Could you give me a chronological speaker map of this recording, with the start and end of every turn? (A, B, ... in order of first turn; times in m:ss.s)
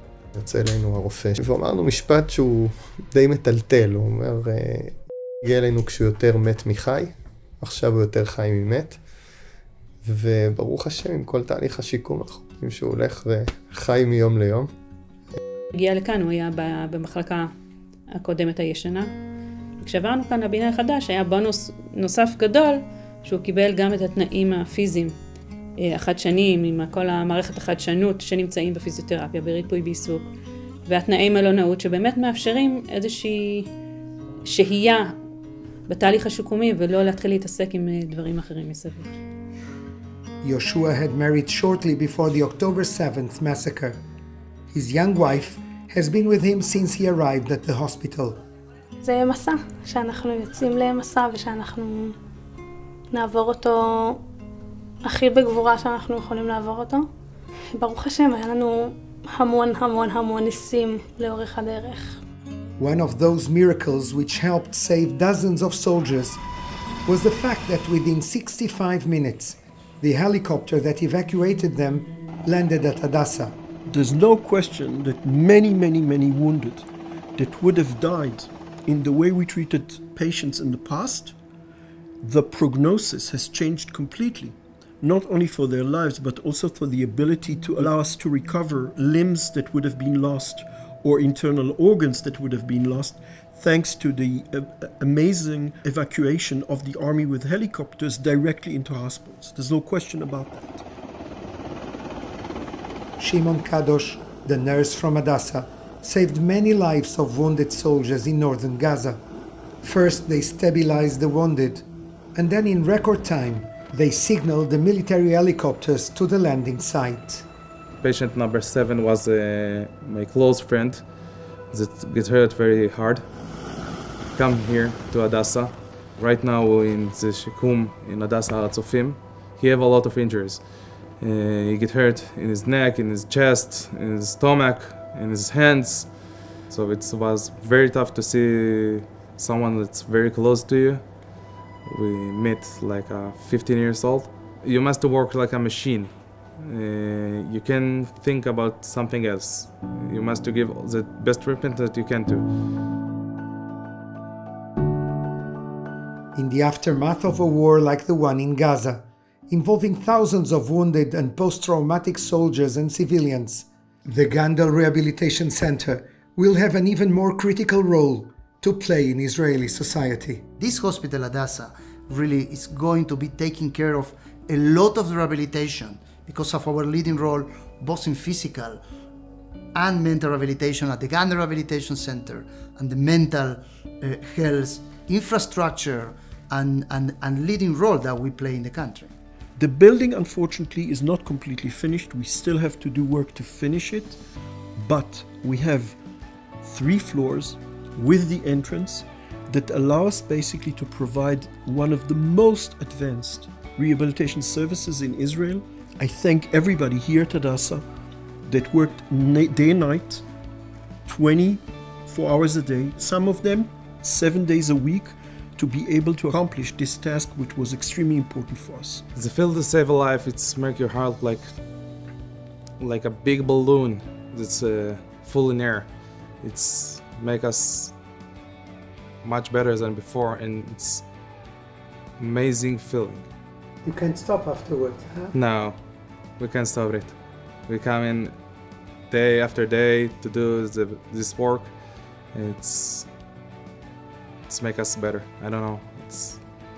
0:00.3-0:09.0 A
0:10.0-0:14.7 A
0:15.7-0:17.5 B
0:18.1-0:19.1 B
0:19.8-0:25.1 B
0:25.8-0:30.3 B
0:30.9-0:33.7 B
0:34.4-0:35.1 B
0:35.9-0:39.2 B
0:40.4-0:44.0 C
0:44.7-0:48.4 C
0:49.0-0:52.1 D
0:53.2-0:54.1 D
0:55.1-0:57.0 D
0:57.8-1:02.2 D
1:02.8-1:06.4 C
1:07.0-1:13.6 C
1:13.9-1:21.3 E
1:22.2-1:40.8 E
1:43.2-1:49.2 C
1:49.8-1:57.4 C
1:58.0-2:01.0 F
2:01.7-2:03.2 F
2:04.3-2:21.0 F
2:21.8-2:32.5 F
2:36.3-2:50.4 C
2:50.6-2:58.8 G
2:59.7-3:09.1 G
3:09.6-3:14.2 E
3:14.8-3:16.0 E
3:16.6-3:27.8 E
3:28.4-3:30.2 E
3:31.0-3:39.0 E
3:39.1-3:41.5 F
3:42.8-3:48.0 F
3:49.2-3:51.0 F
3:52.2-3:53.2 F
3:53.8-3:55.3 C
3:55.3-3:55.8 F
3:56.4-3:58.4 F
3:59.1-4:01.8 F
4:02.3-4:03.1 F
4:04.5-4:06.4 F